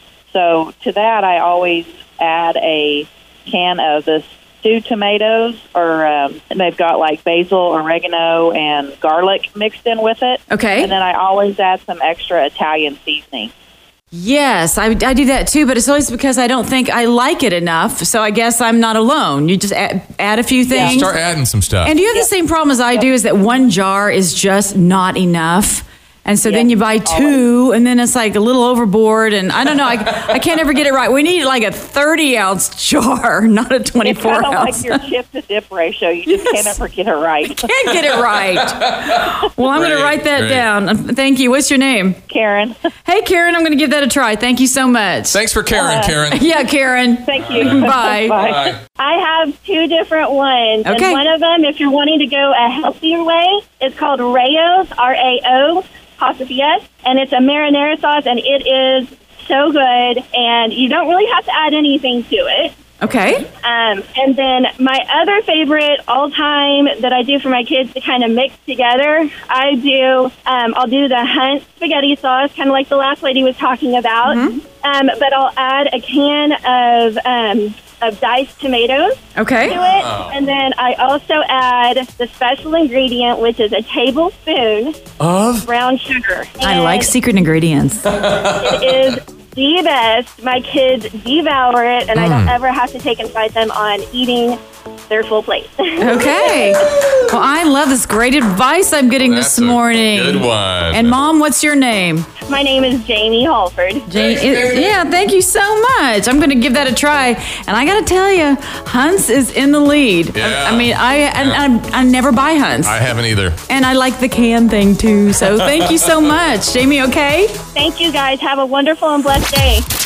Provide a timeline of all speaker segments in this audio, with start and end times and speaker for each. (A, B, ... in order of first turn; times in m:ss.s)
0:00.3-0:13.5 A
0:10.5-0:10.9 B
0:14.1-0:21.2 B
0:20.7-0:21.0 A
0:20.8-0:22.0 C
0:21.8-0:35.0 B
0:26.5-0:27.4 A
0:34.0-0:37.7 A
0:36.3-0:36.6 B
0:37.5-0:42.2 B
0:39.7-0:40.7 C
0:42.3-0:42.8 A
0:43.0-0:45.4 B
0:45.3-0:46.5 C
0:45.7-0:46.1 A
0:46.3-0:48.4 B
0:47.3-0:48.7 A
0:47.5-0:48.8 C
0:49.0-1:02.8 D
0:50.8-0:51.2 B
1:03.0-1:03.4 B
1:03.6-1:25.0 D
1:14.2-1:14.6 B
1:19.4-1:19.8 B
1:19.8-1:20.3 C
1:25.2-1:25.7 C
1:25.6-1:27.1 D
1:26.6-1:28.0 B
1:28.2-1:28.7 C
1:28.3-1:34.6 D
1:32.2-1:32.5 C
1:35.1-1:36.7 D
1:36.0-1:42.3 B
1:39.2-1:41.2 C
1:42.5-1:44.1 D
1:44.1-1:53.0 B
1:44.2-1:45.0 C
1:50.4-1:51.6 C
1:52.8-1:53.6 C
1:53.7-1:57.6 B
1:57.7-1:59.9 D